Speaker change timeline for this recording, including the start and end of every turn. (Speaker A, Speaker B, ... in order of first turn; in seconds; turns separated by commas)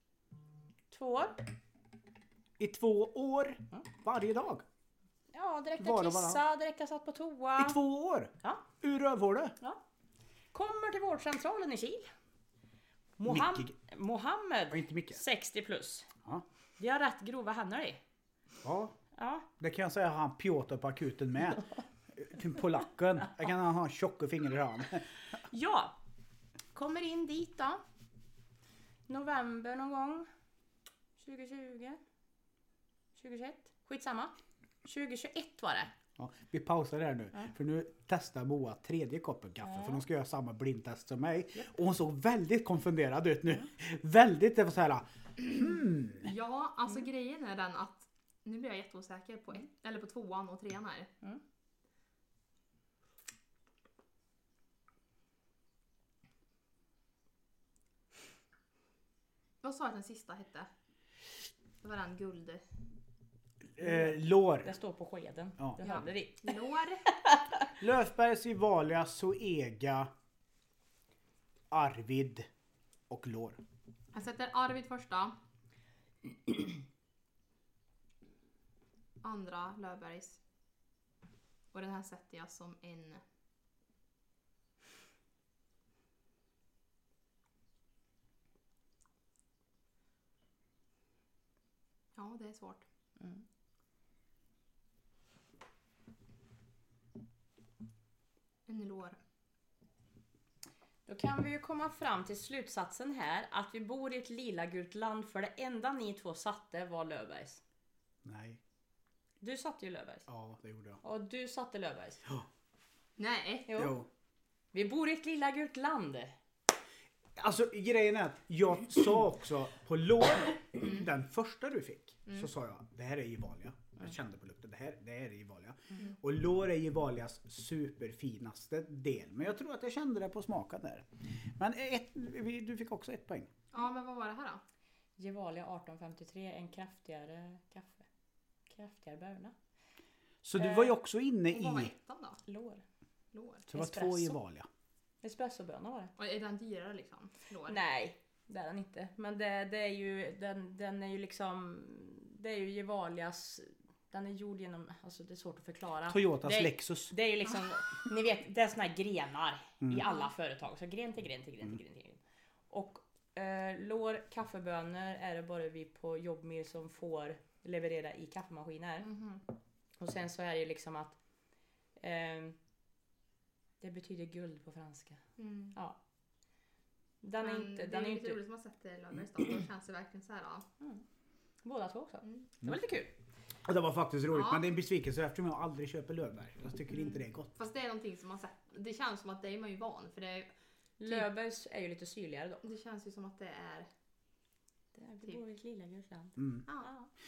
Speaker A: 0.9-1.5, Speaker B: 2.6-4.6, Speaker A: 5.3-7.8, Speaker B: 5.8-6.4, Speaker B: 7.6-9.6, Speaker A: 10.5-12.1, Speaker A: 13.2-16.1, Speaker B: 13.3-13.7, Speaker B: 14.7-15.2, Speaker A: 16.8-18.0, Speaker B: 18.6-18.9, Speaker A: 19.1-19.5, Speaker B: 19.6-25.1, Speaker A: 25.5-26.0, Speaker A: 26.7-27.8, Speaker A: 29.1-30.3, Speaker A: 31.2-32.0, Speaker A: 33.2-34.3, Speaker A: 34.9-35.9, Speaker B: 36.2-46.3, Speaker A: 39.6-40.0, Speaker C: 46.2-51.1, Speaker C: 59.6-60.7, Speaker C: 61.8-62.6, Speaker B: 63.8-64.7, Speaker A: 63.8-67.7, Speaker C: 65.8-67.0, Speaker B: 67.8-70.1, Speaker B: 71.7-72.5, Speaker B: 73.1-73.6, Speaker C: 74.1-75.3, Speaker C: 79.2-80.4, Speaker C: 81.7-83.2, Speaker C: 92.2-92.8, Speaker C: 98.7-99.2, Speaker A: 101.1-107.6, Speaker B: 108.2-108.6, Speaker A: 109.4-110.3, Speaker B: 110.3-111.0, Speaker A: 111.0-112.2, Speaker C: 113.2-113.8, Speaker A: 113.7-114.0, Speaker B: 113.7-114.1, Speaker A: 114.7-116.3, Speaker B: 117.4-133.5, Speaker C: 133.7-134.6, Speaker A: 135.2-138.1, Speaker A: 138.7-139.6, Speaker B: 140.4-141.9, Speaker A: 140.6-140.9, Speaker C: 141.5-142.4, Speaker A: 142.5-142.8, Speaker C: 143.3-143.7, Speaker B: 143.7-144.7, Speaker A: 143.7-144.4, Speaker A: 145.2-146.1, Speaker C: 146.2-147.8, Speaker A: 147.7-169.2, Speaker B: 156.1-157.1, Speaker C: 169.1-169.4, Speaker A: 170.0-171.2, Speaker A: 172.0-172.6, Speaker A: 173.8-175.2, Speaker C: 175.4-175.8, Speaker A: 177.2-178.4, Speaker C: 177.4-180.7, Speaker A: 181.6-183.1, Speaker B: 183.7-187.5, Speaker C: 184.3-184.6, Speaker C: 187.6-190.5, Speaker A: 191.0-192.6, Speaker C: 192.6-193.9, Speaker A: 194.9-197.1, Speaker B: 196.4-196.7